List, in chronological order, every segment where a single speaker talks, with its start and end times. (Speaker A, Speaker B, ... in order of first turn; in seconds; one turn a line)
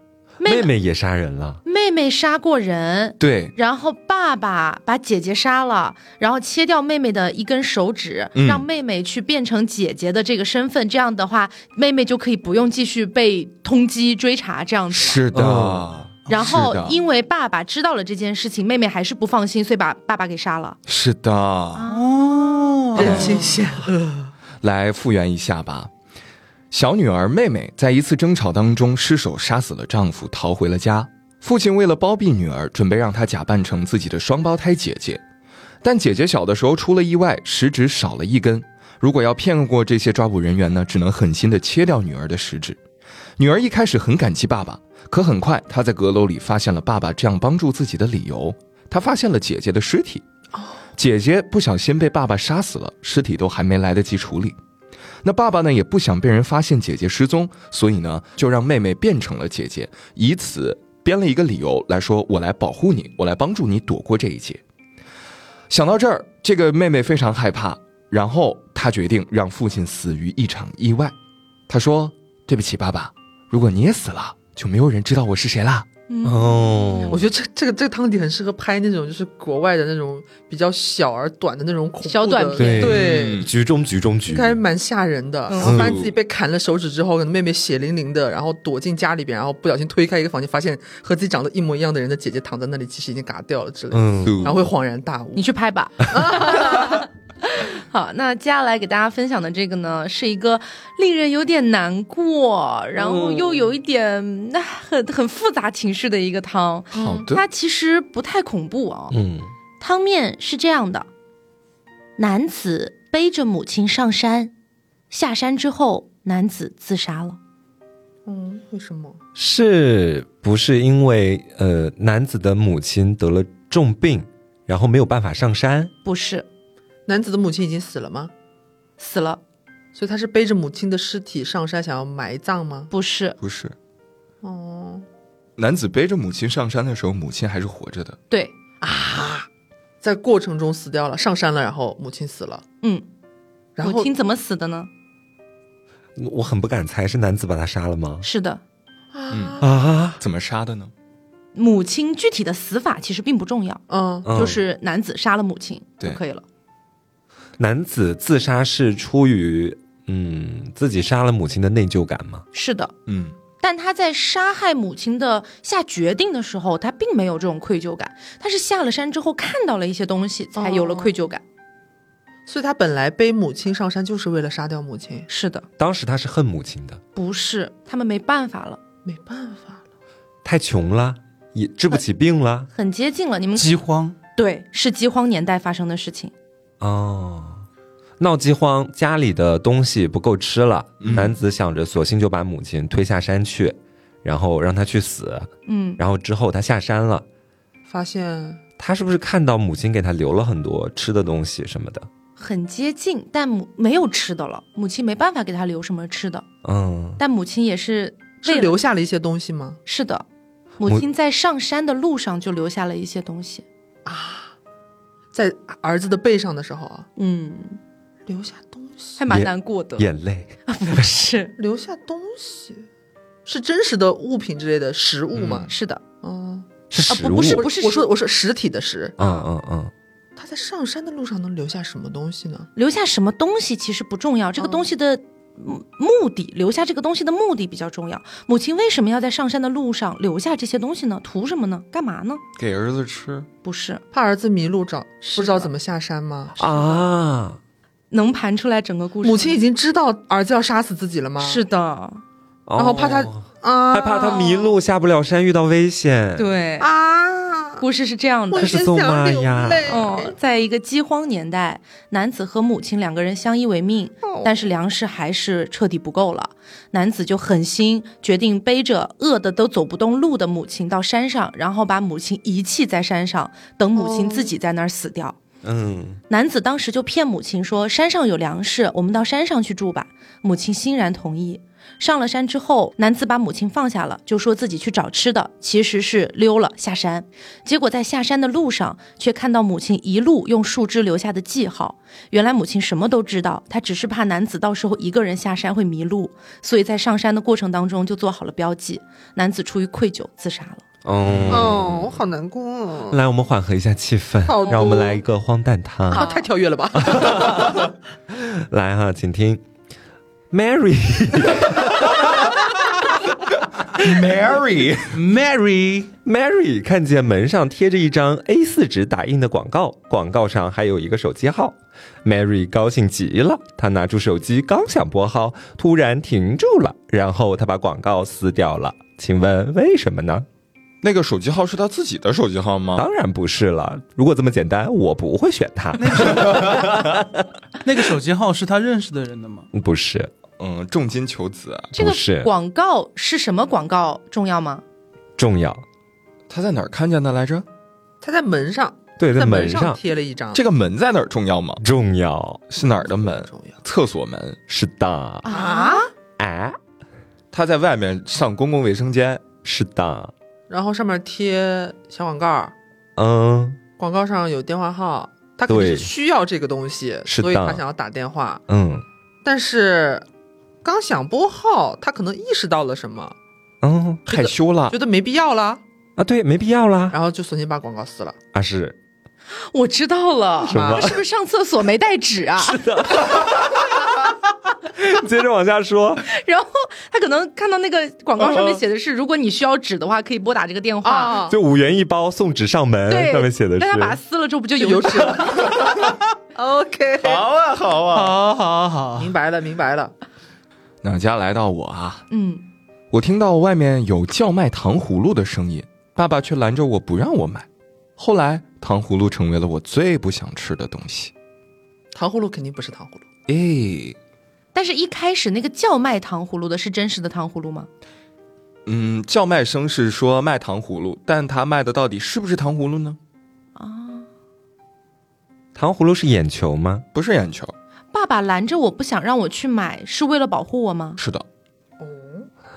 Speaker A: 0.4-0.7
Speaker B: 0.4-1.6
Speaker A: 1.6-15.2
Speaker C: 3.2-3.5
Speaker C: 8.3-8.7
Speaker C: 14.9-17.0
Speaker B: 15.3-16.0
Speaker D: 16.3-16.6
Speaker A: 16.3-20.8
Speaker C: 20.9-21.9
Speaker A: 21.8-22.5
Speaker D: 21.9-23.3
Speaker E: 22.9-24.3
Speaker C: 22.9-23.5
Speaker C: 24.6-25.9
Speaker C: 26.7-35.2
Speaker C: 35.8-42.8
Speaker C: 43.4-50.2
Speaker E: 50.5-50.8
Speaker C: 51.0-54.6
Speaker C: 55.2-64.6
Speaker C: 65.7-71.1
Speaker C: 71.7-75.8
Speaker A: 76.1-77.2
Speaker B: 76.2-77.3
Speaker E: 77.1-83.5
Speaker A: 82.0-83.0
Speaker B: 82.5-84.6
Speaker C: 82.8-83.5
Speaker E: 84.3-95.4
Speaker A: 85.5-85.8
Speaker C: 85.6-86.1
Speaker B: 85.6-86.0
Speaker B: 93.9-94.5
Speaker C: 94.2-94.7
Speaker A: 95.3-109.2
Speaker E: 96.0-97.0
Speaker E: 106.9-107.2
Speaker C: 107.0-107.4
Speaker B: 109.1-109.5
Speaker A: 109.8-111.1
Speaker A: 112.2-114.5
Speaker A: 115.1-117.4
Speaker E: 118.2-119.2
Speaker B: 119.3-125.9
Speaker A: 126.0-126.5
Speaker E: 127.0-128.3
Speaker A: 129.0-129.4
Speaker E: 129.9-132.9
Speaker A: 132.9-133.3
Speaker C: 133.4-133.7
Speaker E: 134.4-135.0
Speaker C: 135.6-138.2
Speaker E: 138.8-139.5
Speaker E: 140.0-142.6
Speaker E: 143.8-144.1
Speaker A: 143.8-144.9
Speaker B: 146.2-148.2
Speaker A: 148.2-148.6
Speaker E: 149.1-149.7
Speaker C: 149.3-149.6
Speaker B: 149.6-150.2
Speaker C: 150.2-150.9
Speaker A: 151.5-156.4
Speaker E: 153.9-154.5
Speaker B: 154.2-154.6
Speaker B: 157.6-162.4
Speaker A: 162.5-162.9
Speaker C: 163.1-163.3
Speaker A: 163.6-171.4
Speaker E: 170.6-171.1
Speaker E: 172.5-175.3
Speaker A: 175.3-175.7
Speaker B: 175.8-177.0
Speaker A: 177.1-178.8
Speaker E: 179.0-179.8
Speaker B: 180.4-182.7
Speaker A: 182.7-183.8
Speaker D: 183.5-184.2
Speaker A: 184.3-186.3
Speaker B: 186.8-187.6
Speaker B: 188.2-197.2
Speaker C: 191.0-191.3
Speaker A: 195.7-196.0
Speaker E: 197.9-198.6
Speaker B: 198.8-202.1
Speaker A: 202.4-206.4
Speaker B: 206.6-207.2
Speaker A: 207.2-208.7
Speaker E: 208.4-209.8
Speaker A: 209.8-210.2
Speaker A: 210.8-213.6
Speaker E: 214.1-214.5
Speaker E: 215.3-217.1
Speaker A: 217.2-217.8
Speaker E: 218.2-219.2
Speaker A: 219.2-220.1
Speaker B: 219.3-220.5
Speaker A: 220.7-221.5
Speaker E: 221.6-222.8
Speaker E: 223.4-229.2
Speaker C: 225.3-225.7
Speaker A: 225.7-226.0
Speaker B: 226.9-227.7
Speaker A: 227.1-228.1
Speaker B: 229.2-229.9
Speaker A: 229.2-229.5
Speaker E: 230.3-232.7
Speaker A: 232.7-242.4
Speaker E: 234.6-234.9
Speaker C: 242.6-243.5
Speaker A: 243.6-244.0
Speaker E: 244.1-246.7
Speaker A: 245.2-245.7
Speaker B: 246.6-247.6
Speaker A: 246.6-247.0
Speaker A: 248.1-249.6
Speaker E: 249.2-251.6
Speaker A: 251.4-252.2
Speaker B: 252.7-256.5
Speaker E: 252.8-254.7
Speaker A: 256.4-256.9
Speaker E: 256.8-257.8
Speaker A: 257.8-258.8
Speaker E: 258.5-260.3
Speaker B: 258.6-260.0
Speaker A: 259.9-275.4
Speaker E: 264.3-264.6
Speaker E: 274.0-274.5
Speaker B: 275.6-276.2
Speaker A: 276.3-300.8
Speaker B: 301.0-302.2
Speaker C: 301.3-301.8
Speaker E: 301.5-303.2
Speaker B: 303.1-306.2
Speaker E: 304.4-305.2
Speaker A: 304.6-304.9
Speaker E: 306.1-307.9
Speaker A: 306.1-306.4
Speaker B: 307.0-309.6
Speaker B: 310.5-312.5
Speaker C: 313.9-315.2
Speaker D: 315.1-316.1
Speaker B: 316.2-330.5
Speaker C: 331.0-333.1
Speaker B: 332.9-337.5
Speaker D: 336.0-337.1
Speaker D: 337.8-339.7
Speaker B: 339.7-340.3
Speaker C: 340.6-341.9
Speaker B: 341.9-342.5
Speaker A: 341.9-344.8
Speaker B: 345.4-345.8
Speaker C: 346.5-347.6
Speaker E: 348.2-350.6
Speaker B: 349.2-350.0
Speaker C: 350.5-351.8
Speaker B: 351.8-352.6
Speaker C: 352.7-354.6
Speaker E: 352.8-353.8
Speaker B: 354.7-355.4
Speaker A: 355.4-356.1
Speaker E: 355.5-356.1
Speaker B: 356.4-356.8
Speaker C: 357.5-359.4
Speaker B: 359.6-360.3
Speaker E: 360.7-362.7
Speaker B: 363.1-363.8
Speaker E: 364.0-368.6
Speaker B: 365.7-366.1
Speaker B: 367.2-367.8
Speaker B: 368.7-369.0
Speaker E: 369.4-370.2
Speaker E: 370.8-373.3
Speaker B: 373.8-374.2
Speaker C: 374.3-375.0
Speaker E: 374.3-375.8
Speaker B: 376.2-377.1
Speaker E: 377.1-378.4
Speaker B: 378.5-378.9
Speaker A: 379.6-382.9
Speaker B: 380.7-381.2
Speaker E: 380.7-381.2
Speaker B: 382.6-386.2
Speaker A: 386.2-391.4
Speaker E: 391.0-391.6
Speaker B: 391.5-394.2
Speaker A: 393.1-395.7
Speaker E: 394.8-397.4
Speaker C: 397.2-398.4
Speaker D: 398.1-399.3
Speaker E: 399.1-400.1
Speaker C: 401.0-402.2
Speaker A: 402.3-402.6
Speaker C: 403.1-407.6
Speaker C: 408.2-411.3
Speaker E: 412.1-413.2
Speaker C: 413.5-414.1
Speaker A: 414.7-417.9
Speaker C: 418.9-423.2
Speaker A: 423.8-424.3
Speaker B: 425.7-427.0
Speaker C: 427.1-427.7
Speaker A: 428.1-431.2
Speaker C: 431.2-431.4
Speaker E: 432.0-432.5